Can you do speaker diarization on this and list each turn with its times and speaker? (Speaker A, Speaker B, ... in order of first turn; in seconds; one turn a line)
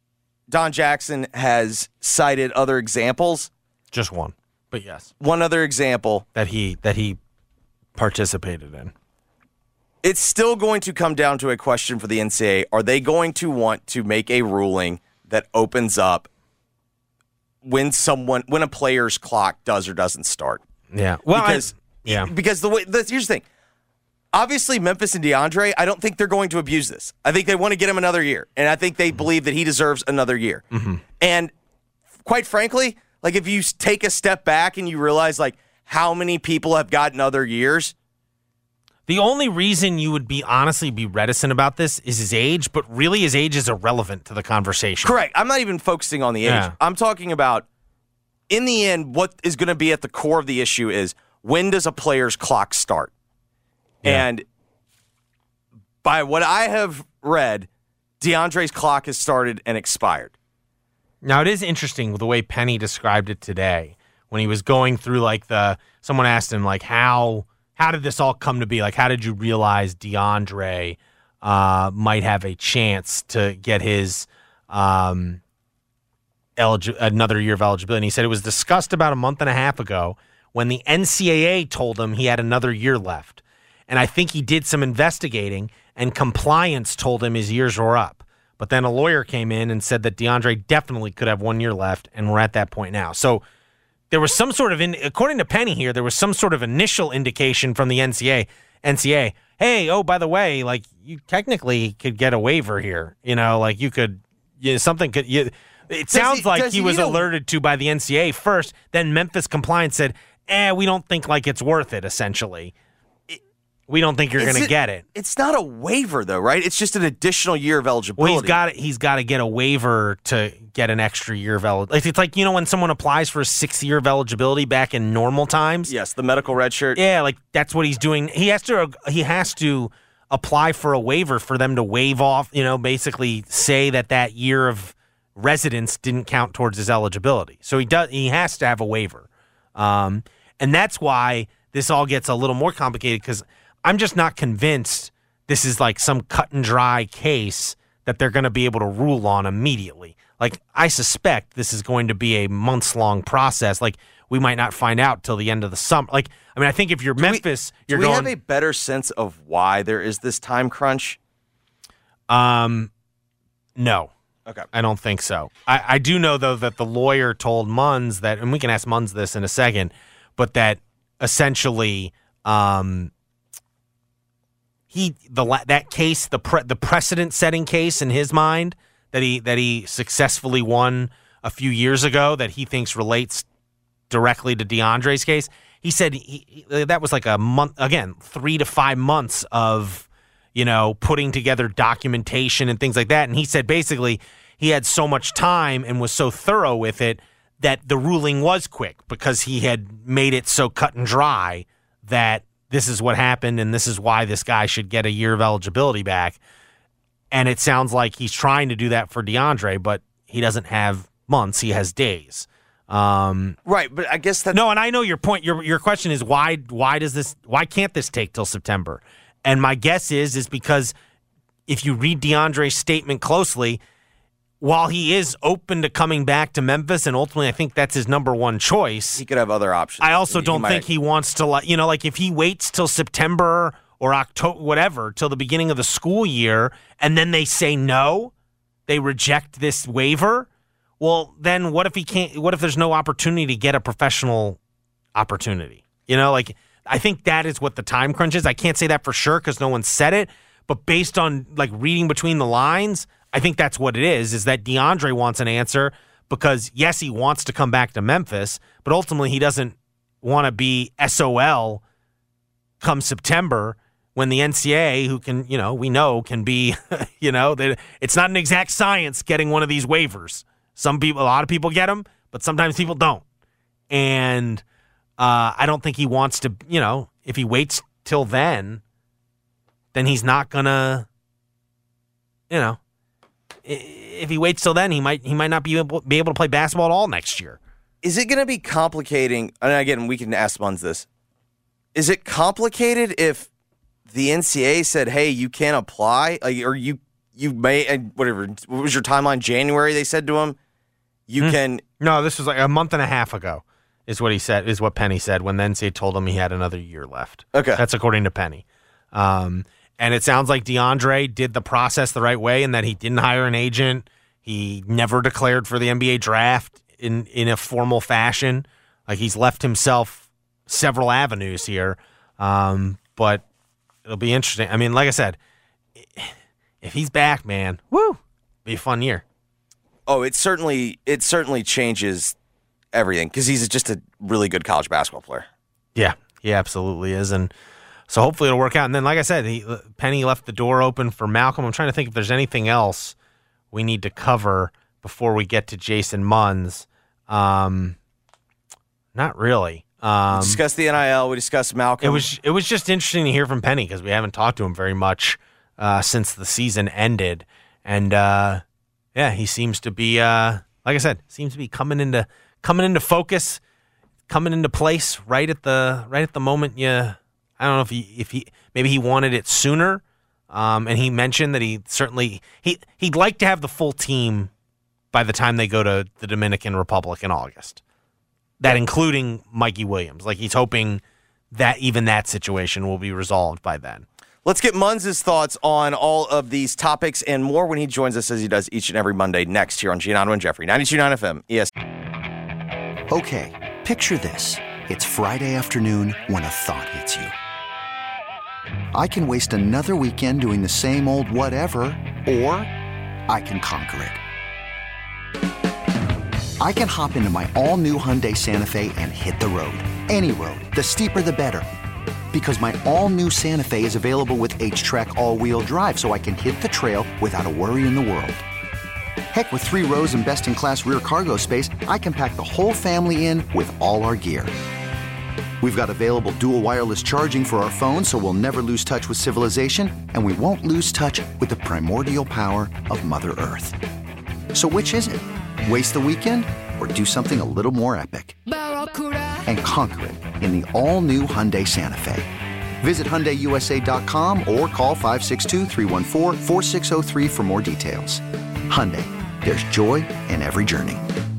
Speaker A: 0.5-3.5
Speaker B: 3.9-5.1
Speaker A: 5.2-6.2
Speaker B: 6.3-7.2
Speaker B: 8.0-8.9
Speaker A: 10.0-16.3
Speaker A: 17.6-20.6
Speaker B: 20.9-22.3
Speaker A: 21.3-23.4
Speaker A: 24.3-30.6
Speaker B: 30.7-31.0
Speaker A: 31.2-31.5
Speaker A: 32.2-37.9
Speaker B: 39.1-45.1
Speaker A: 45.0-47.6
Speaker B: 46.4-46.7
Speaker A: 48.5-53.1
Speaker A: 54.0-54.4
Speaker A: 56.0-57.7
Speaker A: 58.2-60.3
Speaker B: 61.2-75.4
Speaker B: 76.6-93.4
Speaker B: 94.1-112.7
Speaker A: 106.1-107.2
Speaker B: 113.9-115.0
Speaker A: 114.4-118.6
Speaker B: 118.2-125.9
Speaker A: 125.9-127.0
Speaker B: 127.0-158.3
Speaker A: 157.2-161.2
Speaker B: 162.3-162.9
Speaker B: 163.8-164.1
Speaker B: 164.7-173.1
Speaker B: 174.9-183.4
Speaker B: 184.1-206.4
Speaker B: 207.3-213.6
Speaker A: 213.7-214.6
Speaker B: 214.5-220.9
Speaker B: 221.7-223.8
Speaker B: 224.6-229.2
Speaker A: 229.2-230.8
Speaker B: 230.0-238.3
Speaker B: 238.9-240.5
Speaker B: 241.0-244.6
Speaker B: 245.1-261.8
Speaker B: 262.8-273.2
Speaker B: 273.9-274.6
Speaker B: 275.2-278.8
Speaker B: 279.9-281.1
Speaker B: 282.5-282.8
Speaker B: 283.6-287.6
Speaker A: 288.0-291.1
Speaker A: 291.9-293.5
Speaker A: 294.1-300.6
Speaker A: 301.3-301.8
Speaker B: 301.4-323.4
Speaker A: 307.5-307.8
Speaker B: 324.1-325.4
Speaker B: 326.0-329.2
Speaker A: 330.1-332.3
Speaker A: 332.9-335.5
Speaker B: 335.9-337.5
Speaker B: 338.1-343.1
Speaker B: 343.7-347.9
Speaker B: 349.1-350.6
Speaker A: 350.3-352.3
Speaker B: 352.0-358.6
Speaker B: 359.1-363.6
Speaker B: 364.3-374.5
Speaker B: 375.1-377.8
Speaker B: 378.6-384.0
Speaker A: 384.4-391.7
Speaker C: 393.1-397.3
Speaker C: 398.9-402.7
Speaker C: 403.3-404.2
Speaker C: 406.6-411.6
Speaker C: 412.3-418.4
Speaker C: 419.3-424.5
Speaker C: 425.6-433.8
Speaker C: 434.5-438.4
Speaker C: 439.4-442.3
Speaker C: 442.8-451.0